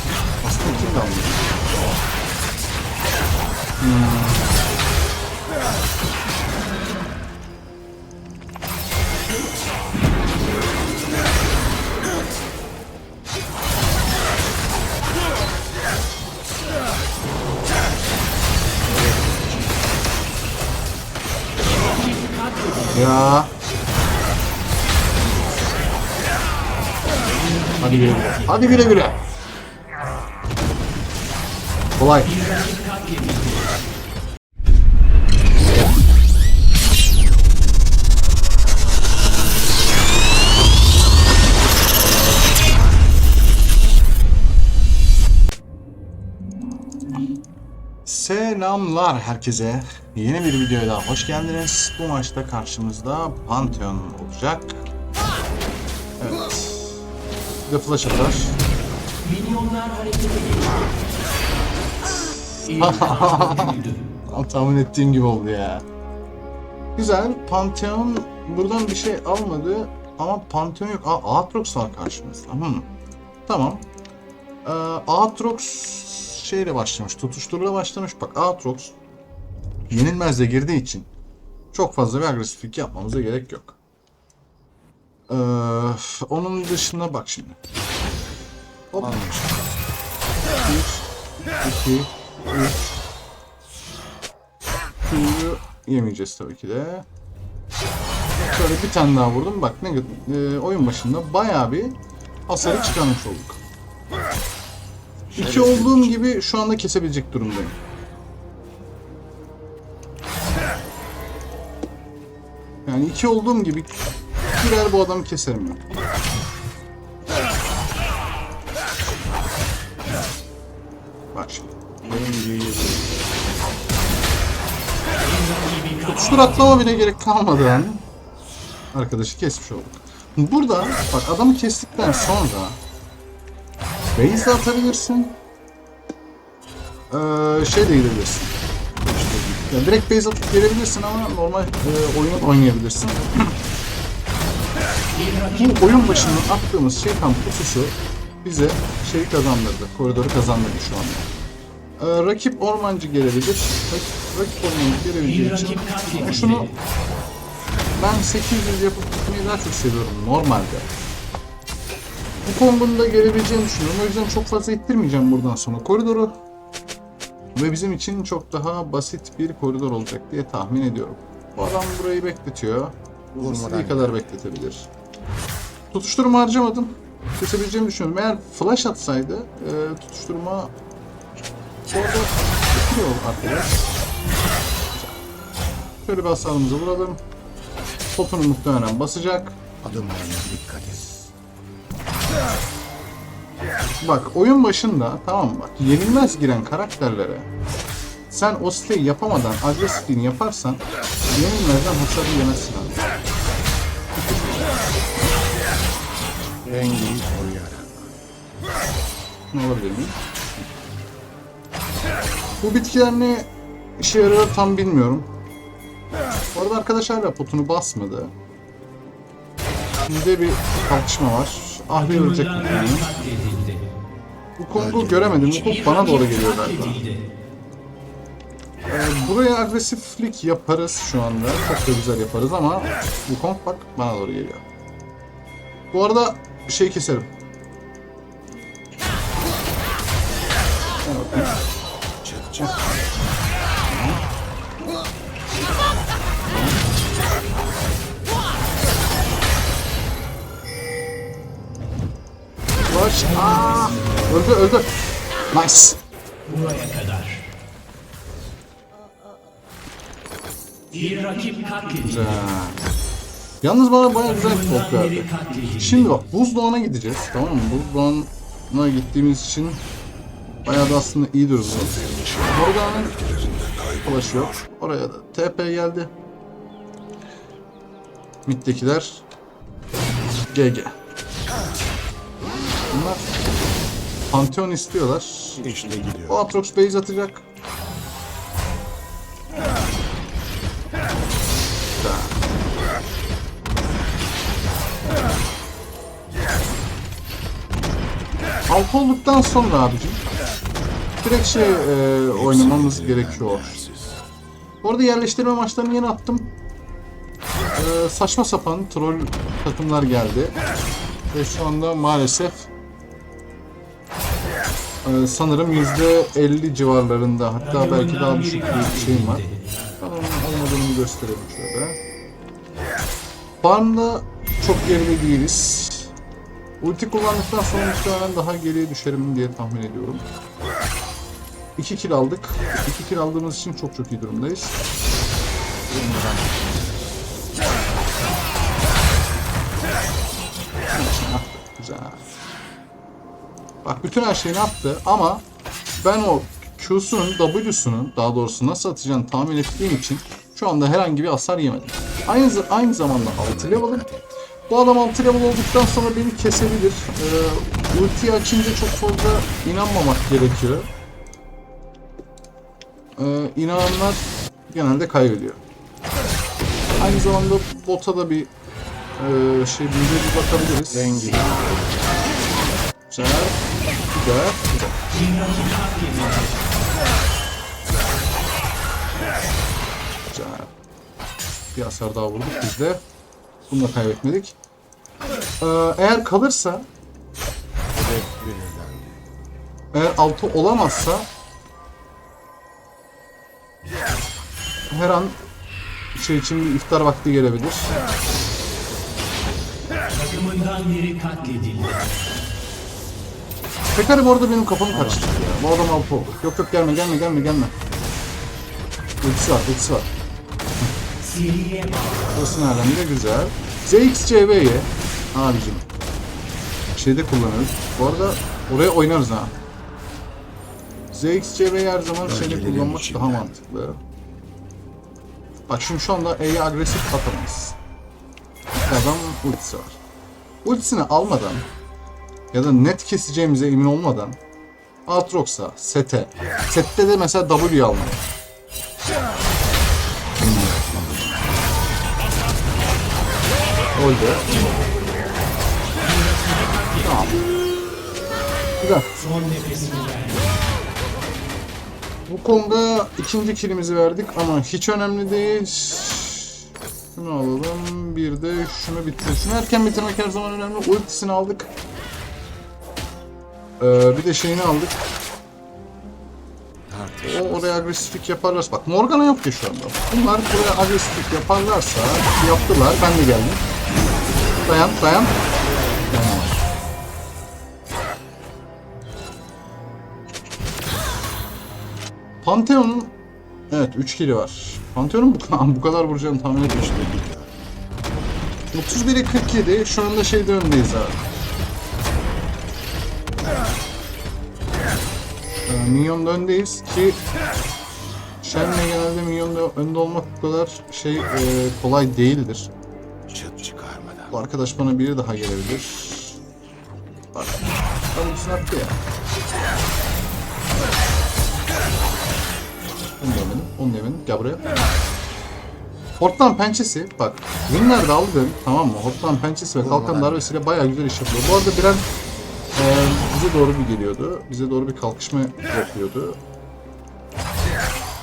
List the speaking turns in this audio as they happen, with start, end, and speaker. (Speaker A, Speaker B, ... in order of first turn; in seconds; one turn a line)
Speaker A: 0.4-1.4
Speaker A: 3.8-4.4
Speaker B: 18.8-20.1
Speaker C: 22.2-22.9
Speaker A: 22.9-23.5
Speaker B: 25.1-26.0
Speaker A: 27.8-29.2
Speaker A: 32.0-32.3
Speaker C: 32.5-33.3
Speaker A: 48.0-54.8
Speaker A: 56.2-57.0
Speaker A: 57.6-58.5
Speaker C: 59.2-60.7
Speaker C: 62.7-63.9
Speaker A: 62.8-65.8
Speaker A: 67.0-72.9
Speaker A: 73.5-73.8
Speaker A: 74.6-78.9
Speaker A: 79.9-81.1
Speaker A: 81.7-83.8
Speaker A: 85.3-87.6
Speaker A: 88.9-89.2
Speaker B: 89.0-89.8
Speaker A: 90.6-91.0
Speaker A: 91.6-93.0
Speaker A: 95.0-97.0
Speaker A: 98.5-102.0
Speaker A: 102.5-103.6
Speaker B: 105.3-106.3
Speaker A: 105.3-107.7
Speaker A: 112.8-113.9
Speaker A: 114.5-115.8
Speaker A: 121.3-121.7
Speaker B: 122.0-123.4
Speaker A: 126.0-128.0
Speaker A: 128.9-132.8
Speaker A: 134.2-135.3
Speaker A: 137.1-138.5
Speaker B: 139.0-139.9
Speaker A: 139.7-143.5
Speaker A: 145.5-151.3
Speaker A: 152.0-156.7
Speaker A: 157.9-160.9
Speaker A: 162.4-166.3
Speaker A: 167.5-174.9
Speaker B: 173.3-174.2
Speaker A: 175.9-180.7
Speaker A: 181.9-183.8
Speaker A: 186.0-187.2
Speaker A: 188.1-189.6
Speaker B: 189.8-191.3
Speaker A: 194.0-197.5
Speaker A: 198.3-203.0
Speaker A: 204.1-204.8
Speaker B: 206.6-208.1
Speaker A: 209.5-210.2
Speaker A: 212.6-215.3
Speaker A: 216.5-218.3
Speaker A: 220.0-223.1
Speaker C: 222.8-223.6
Speaker A: 224.6-227.0
Speaker B: 224.7-225.9
Speaker A: 228.9-234.6
Speaker A: 235.9-237.3
Speaker A: 241.0-241.5
Speaker B: 242.2-243.1
Speaker A: 243.9-244.2
Speaker A: 246.5-246.8
Speaker A: 252.9-254.9
Speaker A: 255.5-256.0
Speaker C: 256.5-257.4
Speaker C: 260.9-262.0
Speaker A: 262.0-262.8
Speaker A: 263.6-269.8
Speaker C: 265.3-265.7
Speaker A: 270.6-273.2
Speaker A: 273.9-276.1
Speaker A: 278.4-279.2
Speaker A: 280.5-280.9
Speaker A: 282.9-283.2
Speaker A: 284.3-285.6
Speaker B: 285.6-286.5
Speaker A: 286.3-287.4
Speaker A: 292.0-292.3
Speaker A: 298.7-300.2
Speaker A: 301.2-303.8
Speaker B: 302.3-304.2
Speaker A: 304.8-306.5
Speaker A: 307.7-310.6
Speaker A: 311.3-312.7
Speaker A: 315.0-319.5
Speaker C: 318.3-318.6
Speaker A: 320.0-322.0
Speaker A: 323.6-326.1
Speaker A: 326.8-330.2
Speaker A: 331.8-334.8
Speaker B: 335.9-337.1
Speaker A: 340.9-342.2
Speaker A: 343.8-345.4
Speaker A: 346.0-354.1
Speaker B: 353.1-354.3
Speaker A: 354.7-360.9
Speaker A: 363.2-365.6
Speaker A: 367.0-368.5
Speaker A: 369.2-371.4
Speaker B: 370.9-372.0
Speaker A: 373.1-375.0
Speaker C: 375.2-376.5
Speaker A: 380.3-380.7
Speaker A: 381.7-383.0
Speaker A: 383.7-384.6
Speaker A: 385.6-386.9
Speaker B: 387.9-389.2
Speaker A: 389.9-391.3
Speaker A: 394.9-395.4
Speaker A: 396.1-397.9
Speaker C: 400.2-402.0
Speaker A: 403.9-407.7
Speaker B: 404.9-405.6
Speaker A: 409.2-410.1
Speaker C: 411.2-412.3
Speaker A: 412.3-415.9
Speaker A: 416.9-419.5
Speaker A: 421.1-424.0
Speaker B: 422.2-423.5
Speaker A: 425.7-427.8
Speaker A: 428.8-430.0
Speaker A: 430.6-431.6
Speaker A: 432.5-434.4
Speaker A: 435.1-438.2
Speaker B: 440.4-441.8
Speaker A: 443.9-444.5
Speaker C: 446.4-446.8
Speaker A: 447.0-447.4
Speaker A: 448.8-449.1
Speaker C: 449.3-450.3
Speaker A: 452.3-461.7
Speaker A: 463.8-465.1
Speaker B: 466.9-467.9
Speaker A: 467.2-473.6
Speaker A: 474.6-475.4
Speaker A: 476.1-476.5
Speaker A: 482.4-483.1
Speaker A: 483.7-487.1
Speaker B: 486.6-487.6
Speaker A: 488.7-491.2
Speaker A: 495.7-497.2
Speaker A: 498.4-502.7
Speaker B: 503.3-504.3
Speaker A: 504.3-506.4
Speaker A: 507.3-509.0
Speaker A: 513.2-514.7
Speaker A: 516.2-522.0
Speaker B: 519.8-520.6
Speaker A: 522.7-526.4